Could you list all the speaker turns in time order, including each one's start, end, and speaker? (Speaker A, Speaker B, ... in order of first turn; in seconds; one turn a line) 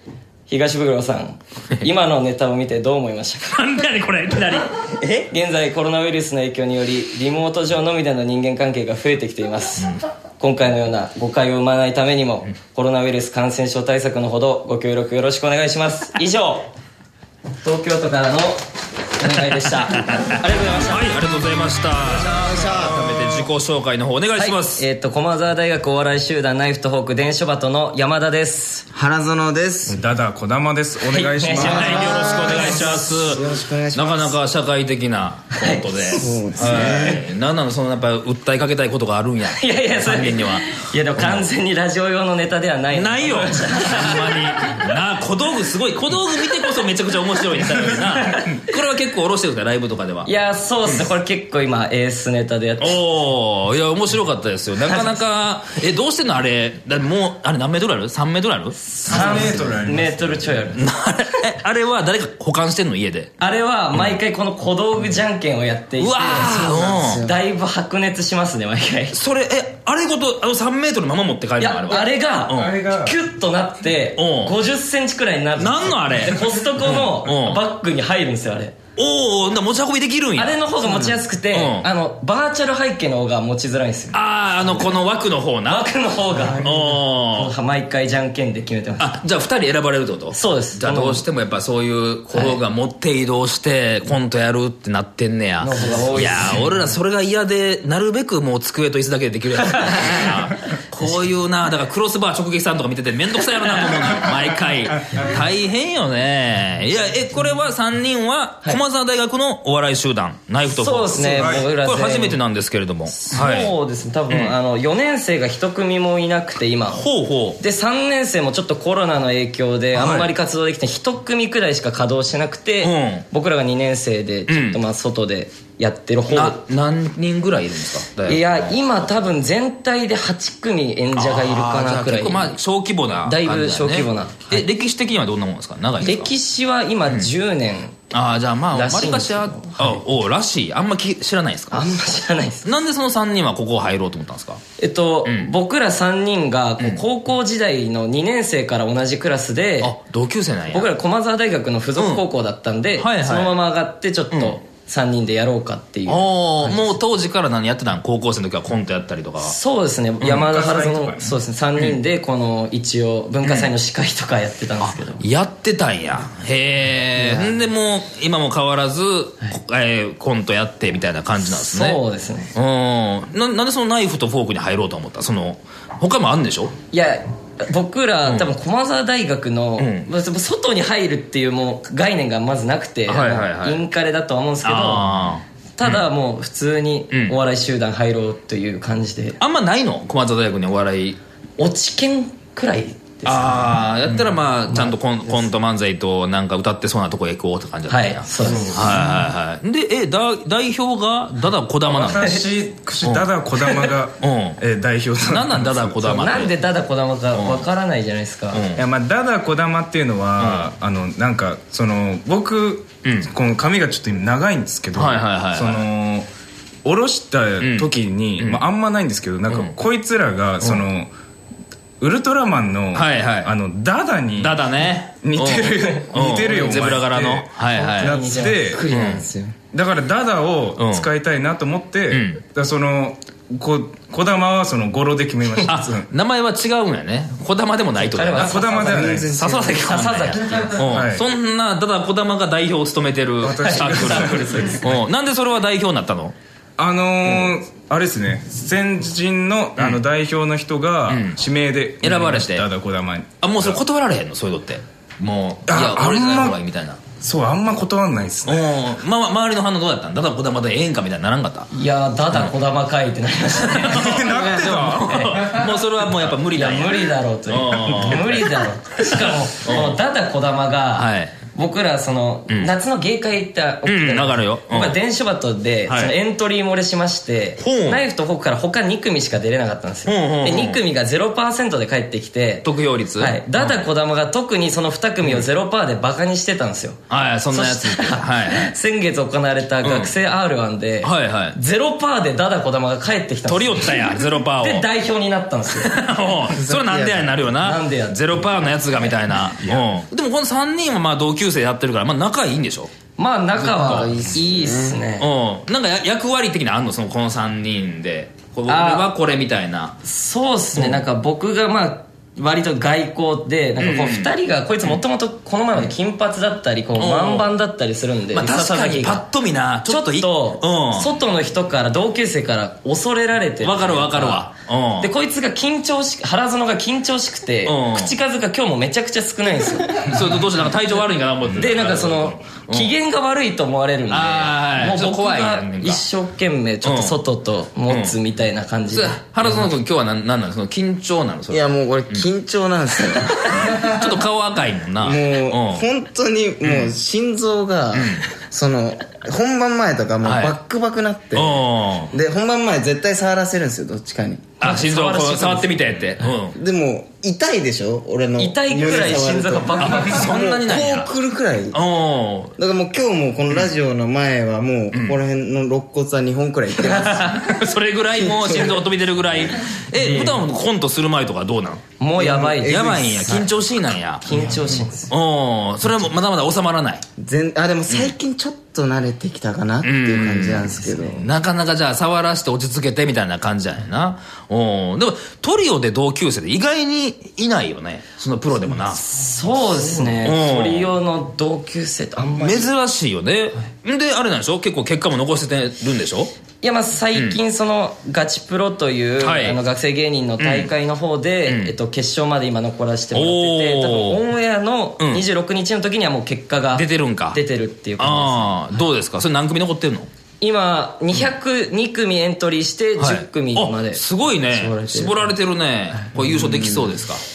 Speaker A: 0.5-3.6
Speaker B: 3.5-4.7
Speaker A: 5.2-16.7
Speaker A: 17.6-18.6
Speaker A: 19.2-21.1
Speaker B: 20.1-24.8
Speaker C: 22.2-23.3
Speaker A: 24.4-28.9
Speaker C: 28.9-30.0
Speaker D: 29.9-33.0
Speaker A: 31.1-32.6
Speaker C: 31.5-34.3
Speaker B: 31.6-41.5
Speaker A: 35.5-37.2
Speaker C: 36.1-37.2
Speaker A: 39.5-44.8
Speaker B: 42.9-50.3
Speaker A: 47.6-48.7
Speaker A: 50.2-53.0
Speaker B: 52.8-58.8
Speaker A: 54.9-55.1
Speaker A: 58.8-60.8
Speaker D: 59.0-60.7
Speaker C: 59.1-59.7
Speaker B: 60.7-63.3
Speaker A: 63.4-69.2
Speaker B: 66.0-67.2
Speaker C: 66.3-67.4
Speaker B: 69.1-72.7
Speaker A: 71.6-78.8
Speaker D: 72.5-73.1
Speaker B: 74.2-74.5
Speaker B: 75.6-77.6
Speaker B: 79.0-80.5
Speaker A: 80.4-84.2
Speaker C: 80.8-81.2
Speaker B: 81.5-81.8
Speaker B: 84.1-85.9
Speaker A: 85.7-86.7
Speaker B: 86.5-87.5
Speaker A: 87.3-89.2
Speaker B: 89.0-113.7
Speaker A: 90.3-91.2
Speaker A: 92.3-92.6
Speaker A: 95.6-96.7
Speaker A: 99.8-100.3
Speaker A: 110.7-112.4
Speaker D: 111.4-111.7
Speaker A: 113.1-117.0
Speaker B: 116.9-117.6
Speaker A: 117.6-126.6
Speaker B: 120.0-120.3
Speaker B: 122.8-123.2
Speaker B: 124.5-124.8
Speaker B: 126.3-129.1
Speaker A: 128.2-132.5
Speaker B: 131.1-136.3
Speaker A: 133.2-134.6
Speaker A: 136.0-138.0
Speaker B: 138.1-141.9
Speaker A: 138.7-140.0
Speaker A: 141.7-142.7
Speaker B: 142.6-144.6
Speaker A: 144.8-149.9
Speaker B: 145.2-145.5
Speaker B: 149.8-150.9
Speaker A: 150.7-157.0
Speaker B: 152.0-152.2
Speaker B: 153.0-153.5
Speaker B: 156.1-159.5
Speaker A: 159.4-165.2
Speaker D: 160.2-161.3
Speaker B: 163.4-163.7
Speaker B: 164.8-172.0
Speaker A: 167.2-167.6
Speaker A: 171.5-172.5
Speaker B: 172.5-176.7
Speaker A: 176.9-185.1
Speaker B: 179.8-180.1
Speaker B: 183.1-183.8
Speaker B: 184.6-186.0
Speaker A: 185.8-189.4
Speaker B: 189.4-191.2
Speaker A: 191.6-193.8
Speaker B: 193.2-202.4
Speaker A: 194.7-195.4
Speaker A: 197.9-199.0
Speaker D: 198.4-199.3
Speaker D: 201.8-205.9
Speaker B: 203.0-204.6
Speaker B: 205.3-206.5
Speaker A: 206.0-208.6
Speaker B: 207.3-207.7
Speaker B: 208.5-208.8
Speaker D: 208.8-216.3
Speaker B: 210.4-210.7
Speaker B: 213.0-213.3
Speaker B: 214.9-215.8
Speaker D: 216.8-221.1
Speaker B: 217.6-218.6
Speaker B: 219.5-219.8
Speaker D: 222.0-224.6
Speaker B: 222.9-223.5
Speaker B: 224.4-228.2
Speaker D: 225.2-228.8
Speaker A: 227.7-228.9
Speaker C: 228.9-229.5
Speaker B: 228.9-229.2
Speaker D: 229.7-236.1
Speaker B: 230.8-231.1
Speaker B: 232.1-232.4
Speaker B: 235.7-246.3
Speaker A: 238.0-239.2
Speaker D: 238.3-239.3
Speaker C: 238.7-240.0
Speaker A: 239.7-240.7
Speaker D: 240.8-241.2
Speaker D: 243.4-245.0
Speaker A: 243.5-244.8
Speaker D: 246.8-253.8
Speaker B: 251.1-251.4
Speaker B: 252.0-252.7
Speaker B: 253.4-257.0
Speaker D: 255.7-256.6
Speaker D: 257.2-258.6
Speaker B: 258.4-261.7
Speaker A: 261.7-264.2
Speaker B: 263.6-269.9
Speaker D: 263.8-265.2
Speaker A: 265.1-265.6
Speaker A: 266.5-282.6
Speaker B: 270.9-271.4
Speaker B: 273.8-274.9
Speaker B: 275.9-276.1
Speaker B: 277.6-278.0
Speaker B: 280.1-280.8
Speaker B: 282.6-283.8
Speaker A: 283.2-287.0
Speaker B: 287.1-288.7
Speaker A: 287.5-295.9
Speaker B: 289.8-290.1
Speaker B: 291.0-291.6
Speaker B: 293.5-294.9
Speaker B: 295.7-302.9
Speaker C: 296.5-297.4
Speaker A: 297.6-298.4
Speaker A: 303.2-305.3
Speaker B: 303.6-304.3
Speaker C: 303.7-305.0
Speaker B: 305.2-310.0
Speaker A: 308.7-309.1
Speaker A: 310.0-319.2
Speaker B: 310.8-311.0
Speaker B: 313.8-314.3
Speaker B: 317.0-317.5
Speaker B: 318.3-321.1
Speaker A: 319.9-324.5
Speaker B: 323.6-325.1
Speaker A: 325.0-330.1
Speaker B: 327.6-328.1
Speaker B: 330.0-332.9
Speaker A: 331.6-339.6
Speaker B: 334.1-336.0
Speaker B: 336.8-337.2
Speaker B: 337.9-338.1
Speaker B: 338.9-342.2
Speaker C: 341.5-344.1
Speaker B: 343.4-345.8
Speaker C: 345.0-354.5
Speaker B: 346.6-346.9
Speaker B: 347.9-348.2
Speaker B: 350.2-350.6
Speaker B: 351.3-352.1
Speaker B: 354.6-356.6
Speaker A: 354.6-355.8
Speaker C: 356.5-361.8
Speaker A: 358.4-360.4
Speaker B: 359.8-361.1
Speaker B: 361.7-362.5
Speaker C: 362.6-367.4
Speaker B: 364.9-365.2
Speaker A: 366.8-367.5
Speaker B: 367.4-371.8
Speaker C: 368.1-368.8
Speaker A: 369.9-370.4
Speaker A: 372.0-373.4
Speaker C: 372.1-373.5
Speaker B: 372.6-377.0
Speaker A: 374.2-375.1
Speaker C: 377.2-381.3
Speaker B: 379.8-389.0
Speaker A: 380.8-381.1
Speaker A: 389.0-392.7
Speaker B: 390.2-390.9
Speaker B: 392.2-396.3
Speaker A: 396.6-408.5
Speaker B: 399.2-399.6
Speaker B: 400.4-400.7
Speaker B: 401.4-401.7
Speaker B: 403.1-404.2
Speaker B: 405.0-405.2
Speaker B: 406.7-407.4
Speaker B: 408.0-410.1
Speaker A: 410.4-415.3
Speaker B: 413.0-417.2
Speaker C: 416.2-416.9